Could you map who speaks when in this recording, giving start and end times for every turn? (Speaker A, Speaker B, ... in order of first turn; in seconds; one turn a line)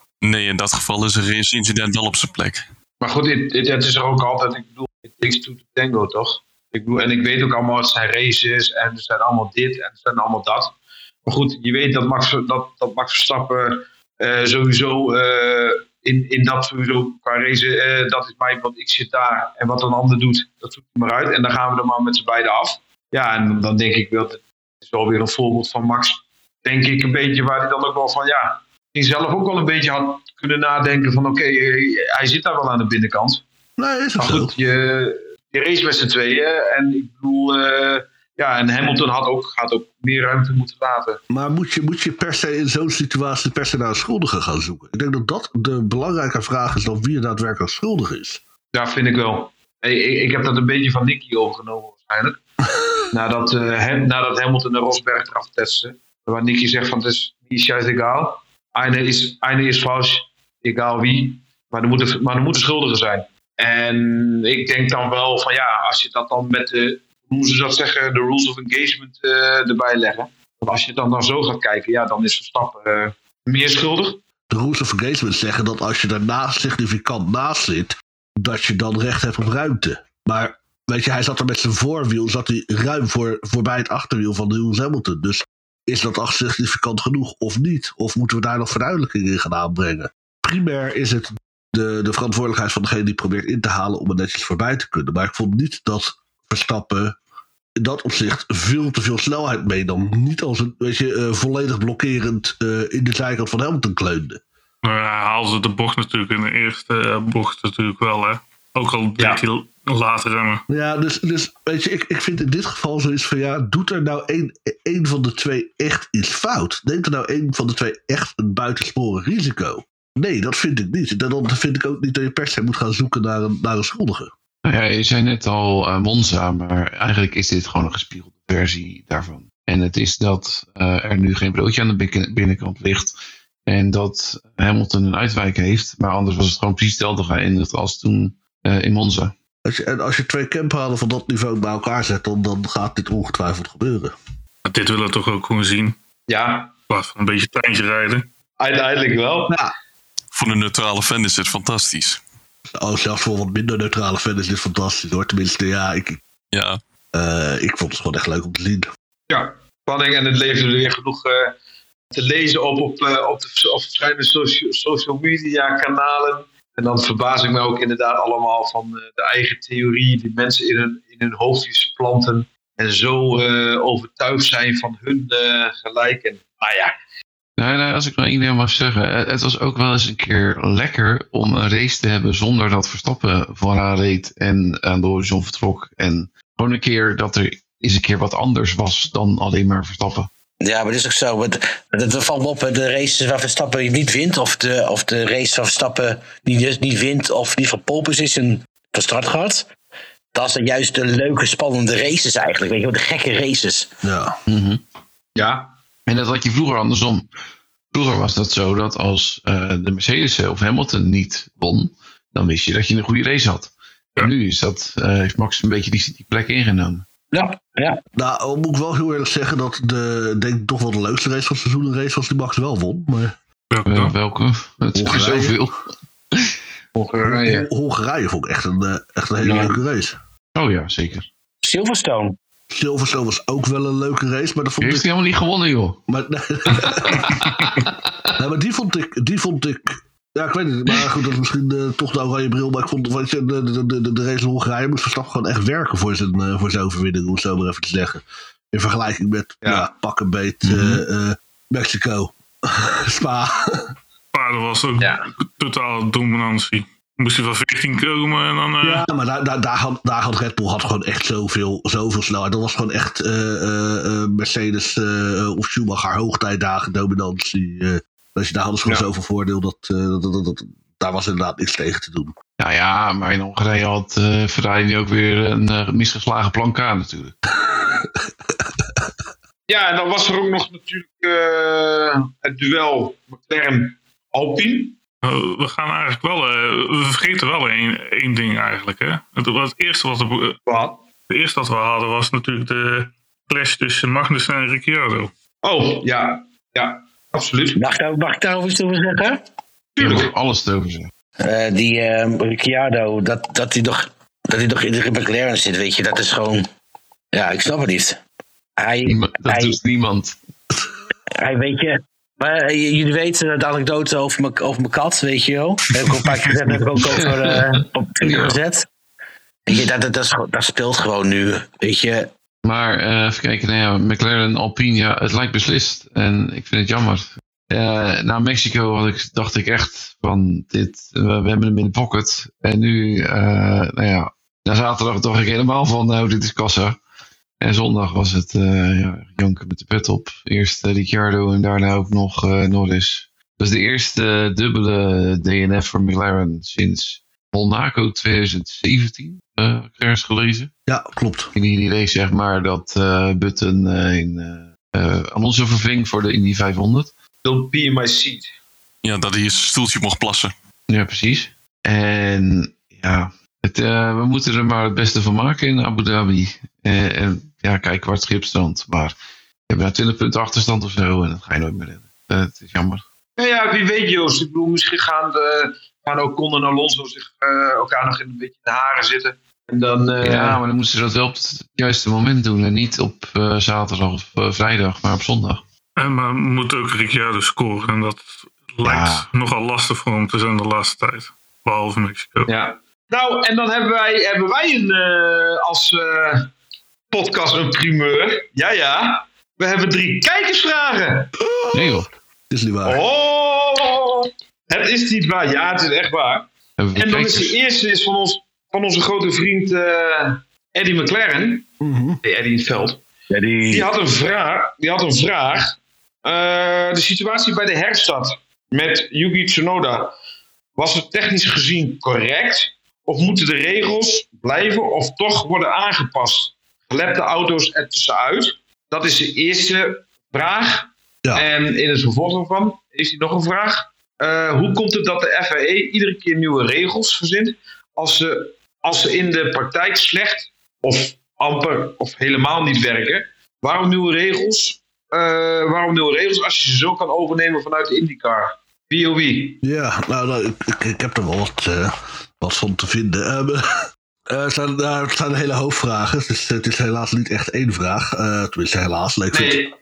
Speaker A: 0.2-2.7
Speaker B: 3.0-10.8
Speaker B: 11.3-33.4
Speaker C: 33.8-34.5
Speaker B: 34.2-41.2
Speaker C: 41.3-48.4
Speaker B: 48.7-52.4
Speaker B: 53.1-74.2
Speaker C: 74.5-97.2
Speaker C: 97.8-104.4
Speaker D: 104.8-110.6
Speaker C: 110.7-124.3
Speaker E: 124.7-133.2
Speaker E: 133.7-139.3
Speaker C: 139.7-144.1
Speaker D: 144.7-146.0
Speaker B: 146.3-146.7
Speaker D: 146.9-148.3
Speaker B: 148.6-149.6
Speaker A: 150.3-152.2
Speaker C: 152.8-156.2
Speaker A: 156.5-156.8
Speaker C: 157.1-158.9
Speaker B: 159.3-161.5
Speaker B: 162.1-176.9
Speaker E: 177.6-190.3
Speaker F: 190.6-199.7
Speaker F: 200.3-203.9
Speaker C: 204.0-204.4
Speaker E: 204.5-204.8
Speaker B: 205.4-205.7
Speaker E: 206.1-207.3
Speaker E: 207.9-217.1
Speaker F: 217.3-218.0
Speaker C: 218.2-223.3
Speaker D: 223.7-224.2
Speaker E: 223.9-225.7
Speaker C: 225.0-225.6
Speaker B: 226.9-227.7
Speaker C: 227.2-230.2
Speaker F: 229.4-229.7
Speaker E: 230.6-231.3
Speaker F: 231.6-232.4
Speaker C: 232.7-235.1
Speaker E: 234.8-236.0
Speaker C: 236.1-237.7
Speaker E: 236.7-238.3
Speaker C: 238.4-253.9
Speaker B: 249.6-249.9
Speaker E: 250.6-251.0
Speaker D: 254.3-259.0
Speaker B: 255.0-255.2
Speaker C: 258.8-272.4
Speaker E: 272.6-277.4
Speaker C: 277.5-279.1
Speaker B: 279.7-285.0
Speaker D: 285.2-290.6
Speaker B: 290.7-291.0
Speaker D: 291.3-295.3
Speaker B: 295.6-297.8
Speaker F: 297.8-299.4
Speaker B: 300.0-300.3
Speaker E: 300.0-301.1
Speaker F: 301.4-306.7
Speaker F: 307.3-308.2
Speaker F: 308.8-309.8
Speaker E: 309.1-310.4
Speaker F: 311.4-318.9
Speaker E: 316.9-317.6
Speaker E: 318.2-318.6
Speaker F: 319.7-322.3
Speaker E: 322.6-337.0
Speaker E: 337.6-350.7
Speaker C: 350.9-351.5
Speaker E: 351.6-357.1
Speaker B: 357.4-358.5
Speaker A: 359.0-360.5
Speaker E: 360.9-369.1
Speaker E: 369.7-373.0
Speaker B: 373.4-380.6
Speaker E: 380.2-385.6
Speaker D: 386.0-392.5
Speaker E: 388.8-389.3
Speaker B: 392.5-396.5
Speaker B: 397.1-401.3
Speaker C: 401.5-403.0
Speaker E: 401.7-402.1
Speaker B: 402.9-411.7
Speaker E: 406.8-407.6
Speaker C: 411.8-412.2
Speaker B: 412.2-413.0
Speaker F: 413.3-413.9
Speaker B: 413.7-420.1
Speaker B: 420.8-449.6
Speaker C: 449.6-459.6
Speaker B: 459.3-459.7